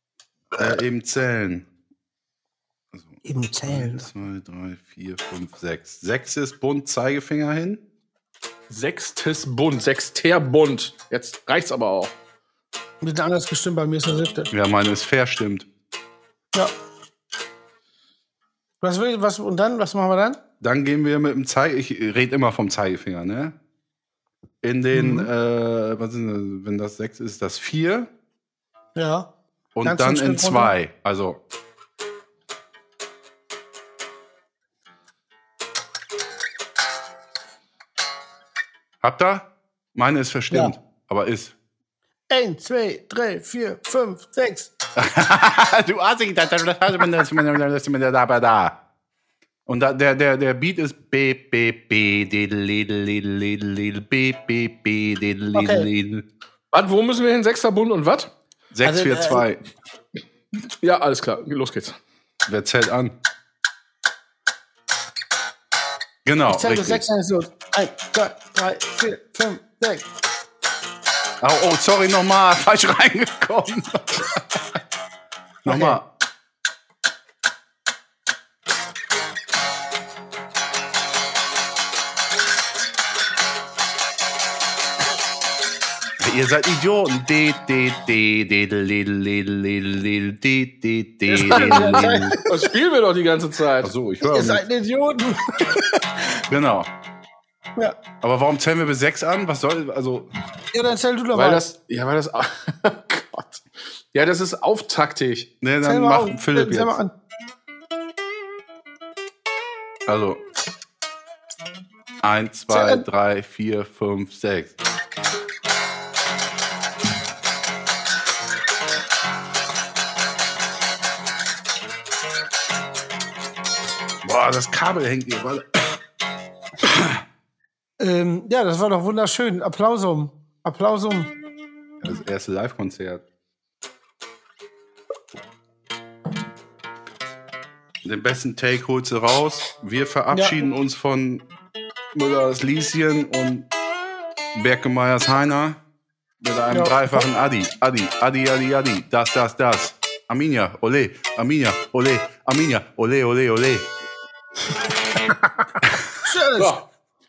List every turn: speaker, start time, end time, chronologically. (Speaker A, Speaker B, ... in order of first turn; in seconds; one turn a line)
Speaker A: 0.5-1.7
Speaker A: 2.9-7.8
Speaker B: 3.2-4.1
Speaker C: 8.7-12.1
Speaker B: 13.0-14.5
Speaker A: 14.5-15.7
Speaker B: 18.8-20.4
Speaker A: 20.6-23.6
Speaker A: 24.6-28.1
Speaker B: 24.9-25.3
Speaker B: 29.0-29.3
Speaker A: 29.8-31.4
Speaker B: 29.8-30.7
Speaker A: 39.0-41.5
Speaker B: 42.3-44.7
Speaker A: 45.0-48.8
Speaker A: 49.7-56.2
Speaker B: 55.5-55.9
Speaker C: 56.7-58.3
Speaker A: 58.7-59.6
Speaker B: 58.8-59.4
Speaker C: 60.8-62.0
Speaker A: 62.5-63.1
Speaker A: 66.2-67.0
Speaker B: 66.5-70.0
Speaker A: 71.4-74.6
Speaker A: 75.6-76.0
Speaker B: 75.7-76.0
Speaker A: 86.2-92.4
Speaker B: 91.3-92.7
Speaker C: 91.6-93.9
Speaker A: 93.8-94.7
Speaker B: 94.2-96.4
Speaker A: 96.5-96.9
Speaker A: 98.2-100.3
Speaker B: 100.7-101.6
Speaker C: 101.3-105.5
Speaker A: 105.6-107.0
Speaker B: 105.8-107.1
Speaker A: 110.1-110.4
Speaker A: 112.2-114.8
Speaker B: 112.7-113.0
Speaker A: 124.2-125.9
Speaker A: 126.8-127.2
Speaker B: 128.0-131.3
Speaker A: 132.0-133.2
Speaker A: 138.0-141.4
Speaker A: 142.1-143.7
Speaker A: 144.6-145.8
Speaker A: 146.4-153.9
Speaker B: 146.7-147.2
Speaker B: 156.2-156.7
Speaker C: 156.6-156.8